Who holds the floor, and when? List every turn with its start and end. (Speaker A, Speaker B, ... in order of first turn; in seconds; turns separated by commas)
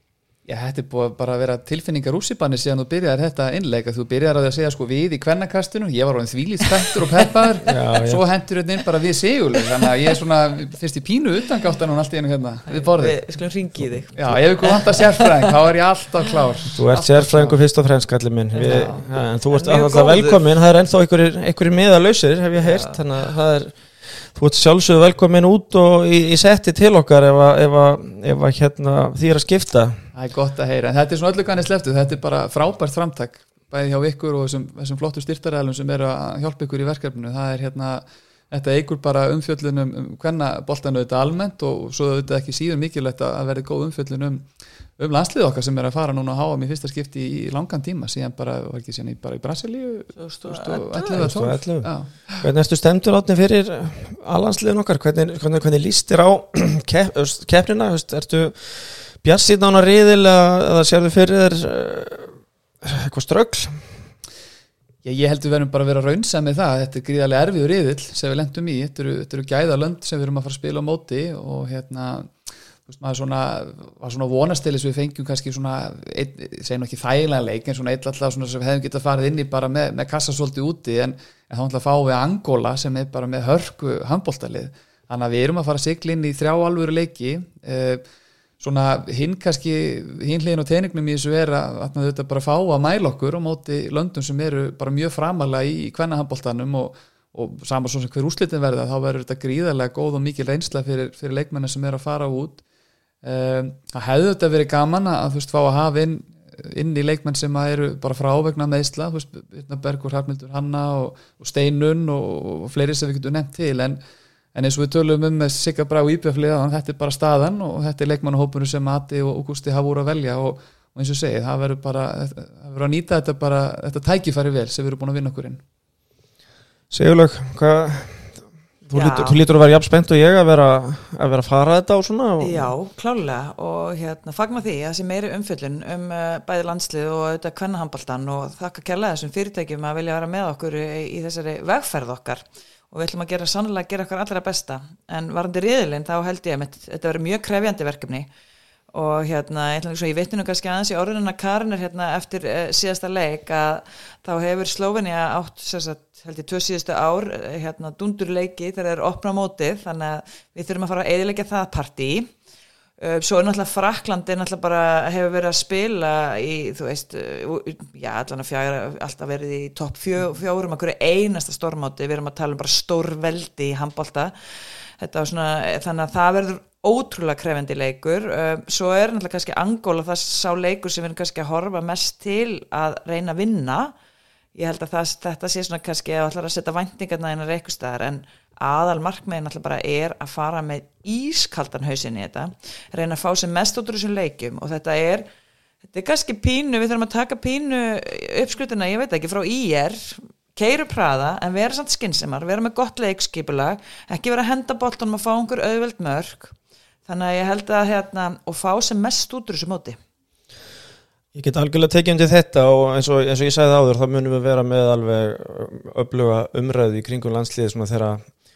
Speaker A: 0.5-13.2, Speaker B: 7.7-8.2, Speaker C: 12.7-15.5, Speaker A: 14.1-17.6, Speaker B: 16.7-30.0, Speaker C: 18.5-20.4, Speaker A: 18.6-19.0, Speaker C: 22.6-23.0, Speaker A: 30.1-52.1, Speaker C: 50.1-51.2, Speaker B: 51.1-63.8, Speaker A: 65.0-72.3, Speaker A: 72.8-88.0, Speaker A: 88.6-102.6, Speaker A: 103.2-114.0, Speaker A: 114.5-125.6, Speaker B: 126.9-128.3, Speaker B: 128.9-132.7, Speaker C: 128.9-129.4, Speaker C: 132.4-148.3, Speaker C: 148.9-162.3, Speaker C: 163.0-174.3, Speaker C: 175.0-183.9, Speaker C: 184.5-195.3, Speaker C: 195.9-210.0, Speaker B: 211.3-218.2